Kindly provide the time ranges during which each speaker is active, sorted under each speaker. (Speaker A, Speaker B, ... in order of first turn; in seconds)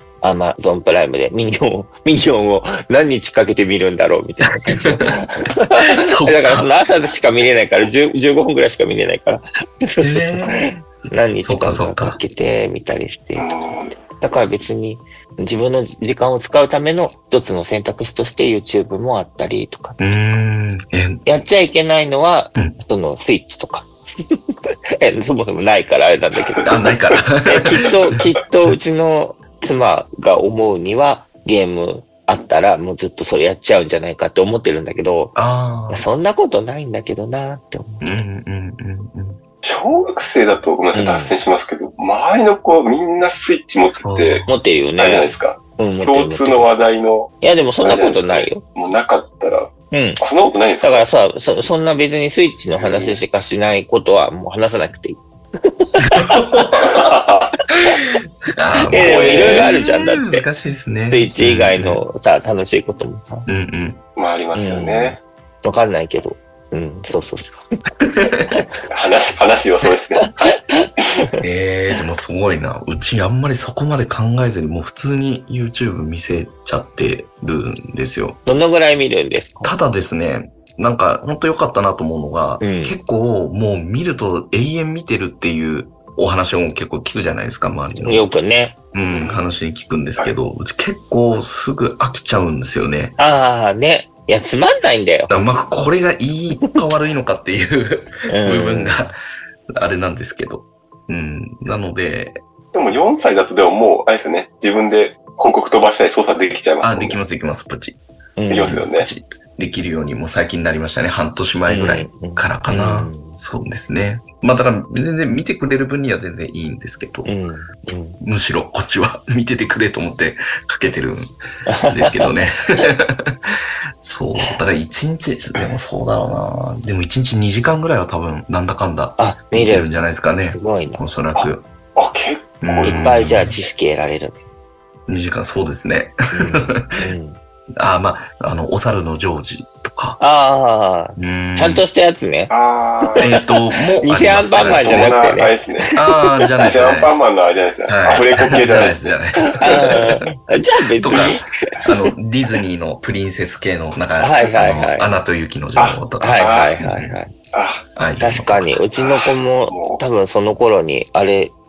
Speaker A: 0.2-20.0, 21.2-26.8, 27.4-35.3, 35.9-38.0, 40.9-41.3, 44.5-46.7, 47.4-48.6, 49.9-50.2, 50.8-56.4, 58.9-60.5, 61.1-63.5, 64.5-67.6, 70.2-71.2, 78.5-79.7, 82.6-83.0, 88.0-88.8, 93.2-95.3, 98.3-99.1, 108.4-108.9, 111.7-113.4, 117.3-118.2, 121.7-122.3, 129.2-129.9, 130.5-131.1, 132.8-134.4, 136.3-137.4, 140.2-143.4, 144.0-146.3, 149.6-152.1, 154.2-155.1, 156.2-157.3, 158.2-161.5
Speaker B: 4.5-5.2, 5.8-6.7, 10.0-10.7, 11.4-12.2, 20.0-21.3, 26.6-27.7, 35.4-36.1, 38.0-39.4, 44.0-44.5, 56.0-57.1, 58.5-62.0, 63.5-64.0, 68.0-68.6, 71.4-78.4, 79.6-88.3, 88.9-93.2, 95.3-99.2, 99.7-102.4, 106.8-108.0, 108.9-117.3, 118.2-121.3, 121.9-123.4, 124.0-131.7, 132.6-133.5, 135.1-136.9, 137.8-140.2, 141.2-141.8, 143.2-145.4, 145.9-147.2, 147.9-150.1, 151.0-157.2, 158.0-158.8
Speaker C: 13.4-14.0, 26.4-26.9, 39.6-44.5, 45.0-51.1, 52.7-53.2, 56.8-57.5, 59.0-59.7, 64.2-65.2, 68.9-70.4, 89.1-89.5, 102.7-107.2, 108.5-109.1, 131.4-133.3, 142.5-143.3, 144.6-145.9, 146.6-150.1, 155.8-156.8, 157.5-157.9, 159.0-160.0